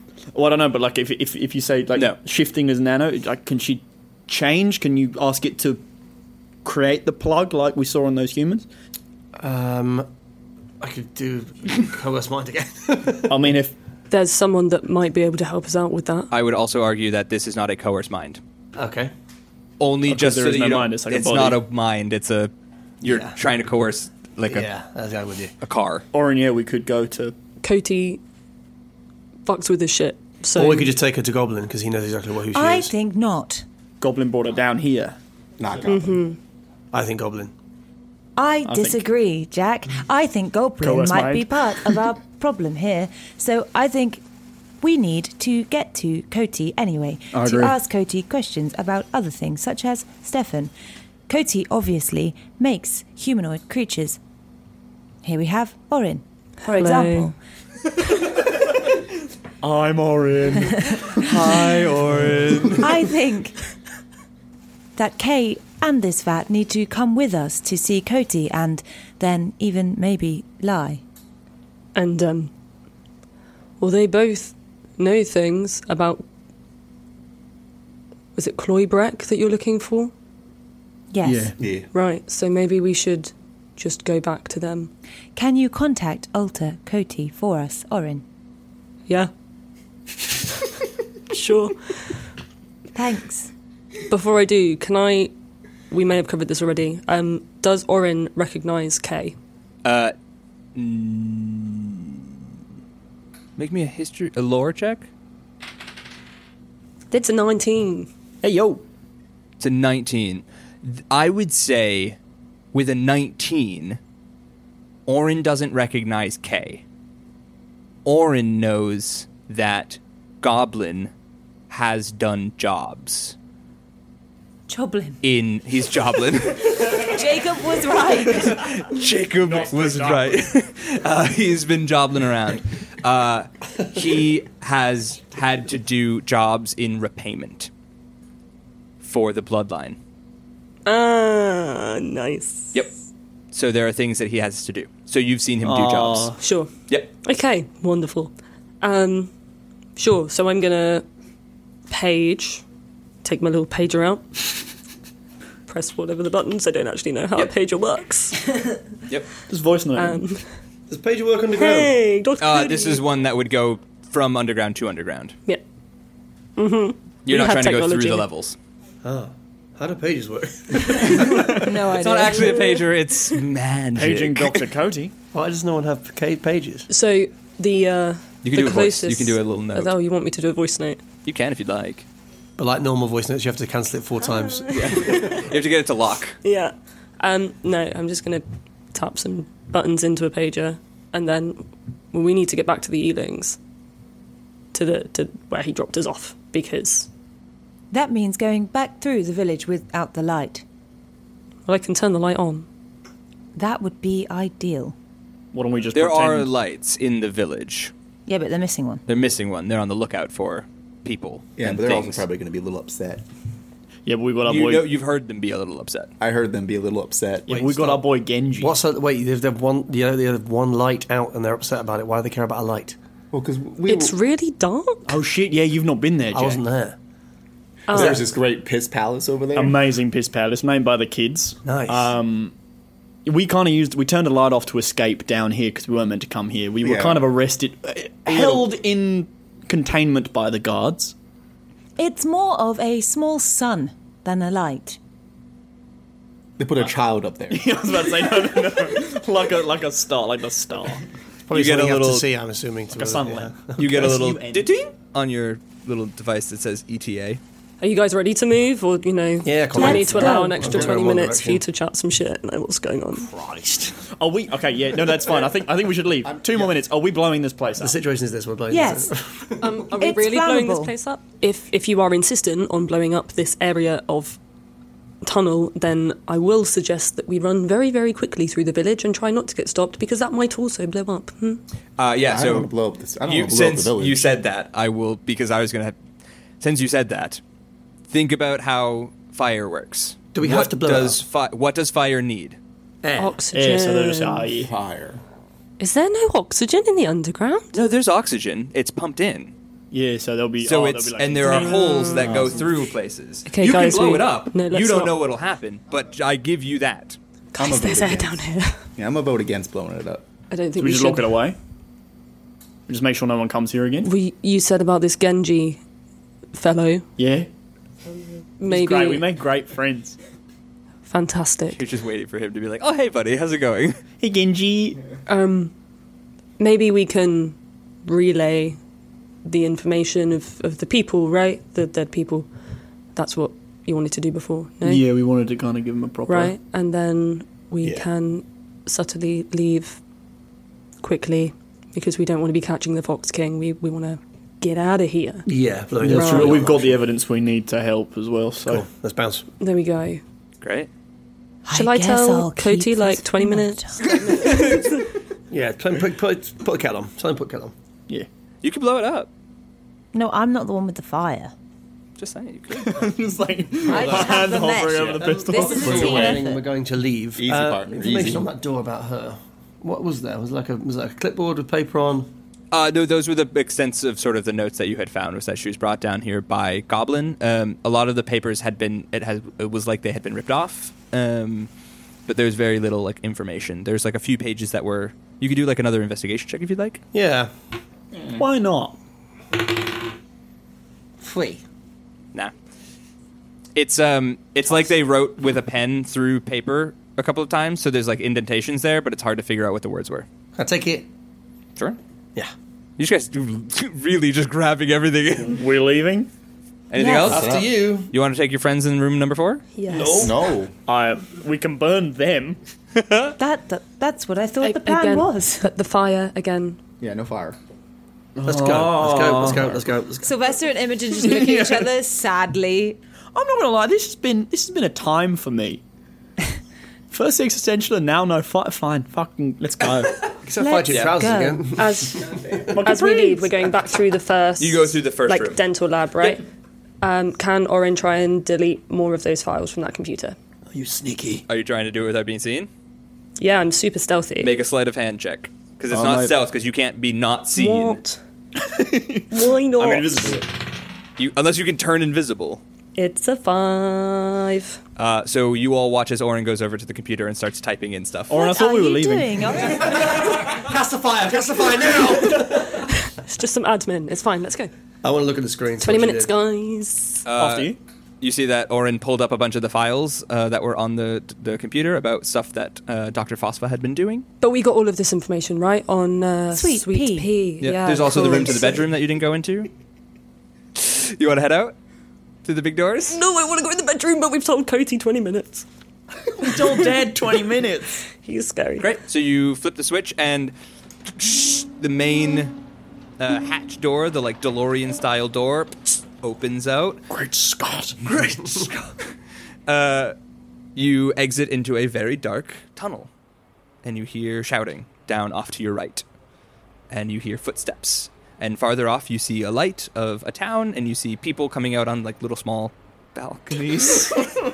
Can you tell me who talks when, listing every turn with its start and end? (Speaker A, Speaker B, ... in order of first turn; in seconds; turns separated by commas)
Speaker A: 0.3-5.8, Speaker A: 6.6-8.7, Speaker B: 9.4-10.1, Speaker B: 10.8-13.4, Speaker A: 13.3-13.7, Speaker C: 14.1-16.3, Speaker D: 16.3-18.4, Speaker B: 18.8-19.1, Speaker D: 19.8-24.7, Speaker A: 20.1-21.6, Speaker B: 23.1-23.4, Speaker B: 24.5-25.5, Speaker D: 25.6-26.1, Speaker A: 26.1-27.4, Speaker C: 27.6-28.2, Speaker C: 29.5-30.9, Speaker B: 30.6-32.9, Speaker E: 32.5-33.6, Speaker A: 34.0-35.2, Speaker F: 35.6-36.2, Speaker C: 35.9-36.4, Speaker B: 36.9-37.5, Speaker E: 38.4-44.2, Speaker A: 38.6-39.0, Speaker A: 40.8-41.9, Speaker E: 44.8-50.7, Speaker A: 47.3-47.8, Speaker E: 51.3-54.2, Speaker E: 55.2-57.4, Speaker C: 56.7-57.3, Speaker A: 59.6-63.0, Speaker D: 61.6-62.7, Speaker E: 62.8-63.6, Speaker E: 65.0-71.0, Speaker C: 72.0-72.5, Speaker C: 73.8-76.2, Speaker C: 78.4-80.1, Speaker E: 81.1-81.6, Speaker A: 81.2-81.6, Speaker F: 81.6-81.9, Speaker C: 81.9-84.9, Speaker E: 85.3-88.2, Speaker C: 91.3-92.1, Speaker E: 93.0-93.5, Speaker C: 94.1-95.3, Speaker C: 95.9-99.4, Speaker D: 99.8-100.1, Speaker D: 100.8-102.1, Speaker D: 103.6-105.1, Speaker C: 107.1-108.1, Speaker A: 108.4-108.8, Speaker D: 109.6-112.2, Speaker D: 112.7-114.0, Speaker D: 115.1-116.8, Speaker D: 118.0-121.1, Speaker D: 121.7-123.4, Speaker E: 124.7-125.2, Speaker D: 125.2-127.2, Speaker E: 126.9-128.7, Speaker D: 128.3-137.7, Speaker A: 129.5-130.4, Speaker D: 139.0-140.0, Speaker C: 140.9-142.8, Speaker D: 143.5-146.3, Speaker A: 145.6-146.4, Speaker C: 146.4-149.3, Speaker C: 150.0-151.1, Speaker C: 151.9-152.6, Speaker C: 153.2-154.7, Speaker C: 155.7-158.7, Speaker A: 159.5-160.2, Speaker C: 160.0-160.5, Speaker B: 160.9-162.0, Speaker C: 161.6-163.0, Speaker D: 162.4-165.4, Speaker C: 166.6-168.3, Speaker D: 167.2-168.6, Speaker B: 169.0-171.7, Speaker E: 171.5-172.7, Speaker D: 171.8-174.6, Speaker C: 172.3-172.8, Speaker A: 174.0-175.1, Speaker B: 175.3-176.9, Speaker C: 176.9-181.0, Speaker D: 178.4-179.9, Speaker D: 181.2-182.1, Speaker B: 182.6-185.2, Speaker C: 184.7-185.3, Speaker D: 184.7-186.4, Speaker C: 186.4-193.6, Speaker C: 194.7-197.1, Speaker E: 197.9-200.6, Speaker C: 201.7-202.7, Speaker E: 203.6-204.9, Speaker A: 205.5-206.5, Speaker D: 205.9-207.9, Speaker E: 208.3-209.0, Speaker D: 209.1-212.2, Speaker F: 211.6-213.2, Speaker A: 214.1-214.9, Speaker D: 214.4-216.1, Speaker F: 216.2-217.7, Speaker A: 217.5-218.8, Speaker B: 217.5-218.0, Speaker B: 218.6-223.0, Speaker F: 223.3-224.2, Speaker C: 223.9-225.2, Speaker A: 225.1-226.6, Speaker B: 226.3-227.0, Speaker C: 227.9-228.2, Speaker F: 227.9-229.8, Speaker B: 227.9-228.2, Speaker A: 229.6-232.5, Speaker B: 231.7-232.1, Speaker A: 233.2-241.1, Speaker F: 236.8-237.3, Speaker F: 238.3-238.6, Speaker E: 242.0-245.0, Speaker F: 246.6-247.8, Speaker A: 247.5-251.0, Speaker B: 251.5-254.2, Speaker D: 251.5-252.3, Speaker A: 252.9-254.7, Speaker D: 253.8-257.4, Speaker C: 257.8-263.3, Speaker B: 259.4-261.6, Speaker E: 259.7-260.6, Speaker B: 263.4-263.9, Speaker A: 264.1-268.0, Speaker F: 266.2-266.7, Speaker B: 267.8-269.9, Speaker E: 268.7-269.1, Speaker C: 269.6-274.4, Speaker E: 270.0-270.9, Speaker C: 275.2-281.6, Speaker D: 282.0-282.7, Speaker F: 282.3-284.3, Speaker D: 283.2-286.0, Speaker D: 286.6-287.4, Speaker D: 288.1-292.6, Speaker B: 290.3-291.2, Speaker B: 293.0-293.4, Speaker C: 293.2-294.5, Speaker A: 293.5-294.7, Speaker F: 294.6-295.2, Speaker C: 295.8-297.8, Speaker D: 297.7-299.5, Speaker A: 299.9-302.6, Speaker D: 300.6-307.2, Speaker C: 301.4-302.6, Speaker C: 303.5-305.2, Speaker C: 307.5-308.8, Speaker F: 307.6-310.2, Speaker C: 310.5-311.5, Speaker A: 310.8-311.6, Speaker A: 312.9-314.1, Speaker C: 314.0-315.8, Speaker C: 316.5-317.1, Speaker A: 317.2-317.5, Speaker C: 318.6-319.3, Speaker A: 318.7-320.2, Speaker C: 321.1-321.8, Speaker D: 321.7-324.0, Speaker A: 324.2-325.0, Speaker C: 325.3-325.7, Speaker C: 326.6-328.8, Speaker C: 329.4-332.5, Speaker C: 333.1-335.1, Speaker A: 334.8-336.6, Speaker C: 336.3-340.0, Speaker C: 341.0-345.4, Speaker B: 345.5-347.0, Speaker A: 346.0-348.9, Speaker C: 346.1-346.7, Speaker B: 348.6-349.5, Speaker C: 349.6-350.2, Speaker D: 350.6-350.9, Speaker E: 351.6-354.2, Speaker C: 351.7-355.1, Speaker B: 355.5-357.7, Speaker D: 358.6-359.3, Speaker E: 360.1-361.5, Speaker D: 362.2-363.1, Speaker A: 362.7-366.4, Speaker E: 363.8-366.6, Speaker B: 365.2-372.3, Speaker F: 367.4-368.5, Speaker D: 372.7-381.7, Speaker D: 382.3-387.0, Speaker B: 387.1-387.5, Speaker F: 388.2-388.4, Speaker A: 388.4-389.0, Speaker F: 391.2-391.6, Speaker D: 393.8-400.3, Speaker B: 400.6-401.1, Speaker D: 403.0-405.6, Speaker A: 405.5-406.3, Speaker D: 406.9-409.6, Speaker E: 407.0-407.4, Speaker F: 407.2-407.7, Speaker B: 407.2-408.1, Speaker C: 409.8-410.4, Speaker A: 409.9-410.3, Speaker F: 410.1-410.7, Speaker A: 410.9-412.6, Speaker D: 413.0-413.3, Speaker E: 413.4-415.7, Speaker C: 414.6-416.8, Speaker F: 417.0-417.6, Speaker A: 418.4-419.8, Speaker B: 418.4-420.3, Speaker E: 420.2-423.0, Speaker A: 421.1-421.9, Speaker A: 423.3-425.8, Speaker A: 427.1-430.3, Speaker B: 430.4-432.3, Speaker E: 430.6-431.7, Speaker D: 430.9-431.1, Speaker C: 431.7-436.4, Speaker A: 432.6-433.7, Speaker D: 434.6-435.6, Speaker C: 437.0-440.4, Speaker A: 440.7-441.4, Speaker D: 441.5-442.7, Speaker C: 443.4-444.5, Speaker D: 444.4-448.0, Speaker A: 445.9-446.4, Speaker C: 447.6-448.2, Speaker A: 448.6-450.4, Speaker C: 449.3-450.4, Speaker D: 451.2-452.6, Speaker C: 453.0-454.8, Speaker D: 455.0-458.4, Speaker A: 458.3-459.7, Speaker E: 458.3-459.9, Speaker B: 459.7-462.8, Speaker D: 459.9-460.6, Speaker D: 461.2-462.0, Speaker C: 462.8-464.7, Speaker B: 465.0-466.3, Speaker C: 465.8-467.2, Speaker D: 467.2-474.3, Speaker A: 467.4-467.8, Speaker C: 474.4-478.9, Speaker E: 476.5-477.3, Speaker D: 477.6-479.7, Speaker D: 480.8-481.8, Speaker D: 482.4-483.2, Speaker C: 483.1-485.7, Speaker A: 486.4-488.1, Speaker C: 486.4-487.0, Speaker C: 488.1-488.9, Speaker D: 488.8-490.5, Speaker D: 491.1-492.6, Speaker D: 493.2-497.0, Speaker A: 497.1-498.0, Speaker D: 498.0-499.0, Speaker D: 499.7-500.2, Speaker D: 500.8-503.1, Speaker D: 503.8-506.1, Speaker D: 506.9-514.3